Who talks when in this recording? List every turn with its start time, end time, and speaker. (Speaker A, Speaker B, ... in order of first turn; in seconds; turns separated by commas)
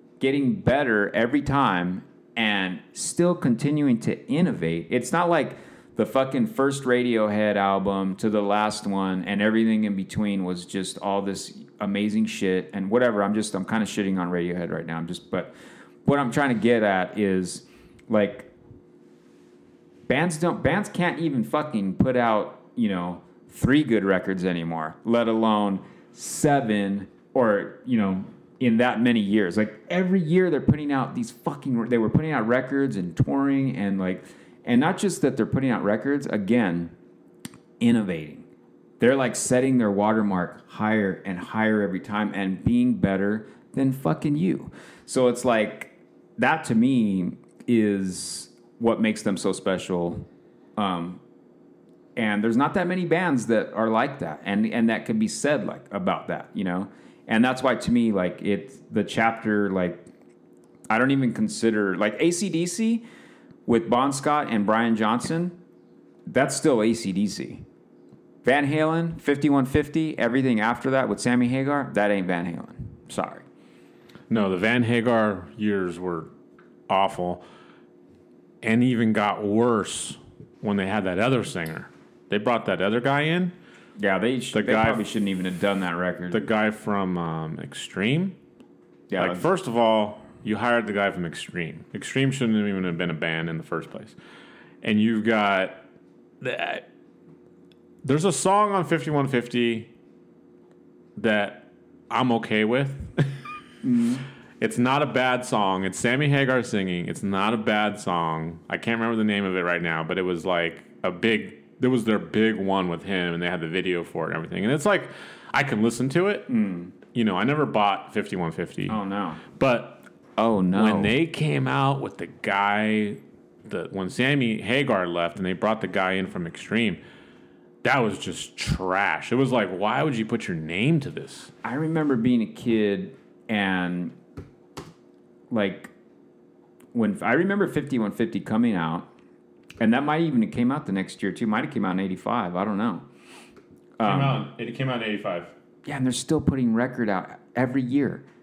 Speaker A: 0.2-15.5, Speaker A: 16.1-18.5, Speaker A: 20.1-36.9, Speaker A: 37.8-38.5, Speaker A: 39.0-50.2, Speaker A: 50.8-51.2, Speaker A: 52.2-60.1, Speaker A: 60.9-63.0, Speaker A: 63.7-65.6, Speaker A: 66.3-67.6, Speaker A: 68.4-73.5, Speaker B: 74.3-76.3, Speaker B: 76.9-77.4, Speaker B: 78.6-83.5, Speaker A: 84.0-86.4, Speaker B: 84.5-85.0, Speaker B: 86.3-88.4, Speaker A: 89.1-89.5, Speaker B: 89.2-94.2, Speaker B: 94.8-95.8, Speaker B: 96.4-96.8, Speaker B: 98.0-99.9, Speaker B: 101.2-103.4, Speaker A: 103.8-104.2, Speaker B: 104.6-116.5, Speaker A: 116.5-116.9, Speaker B: 117.1-119.0, Speaker A: 118.9-119.4, Speaker B: 119.5-120.0, Speaker A: 120.4-121.2, Speaker B: 120.7-127.0, Speaker B: 127.8-131.5, Speaker A: 131.6-134.2, Speaker A: 135.5-135.9, Speaker A: 136.9-139.1, Speaker A: 139.8-143.1, Speaker A: 144.0-144.4, Speaker B: 144.0-145.5, Speaker A: 145.8-148.2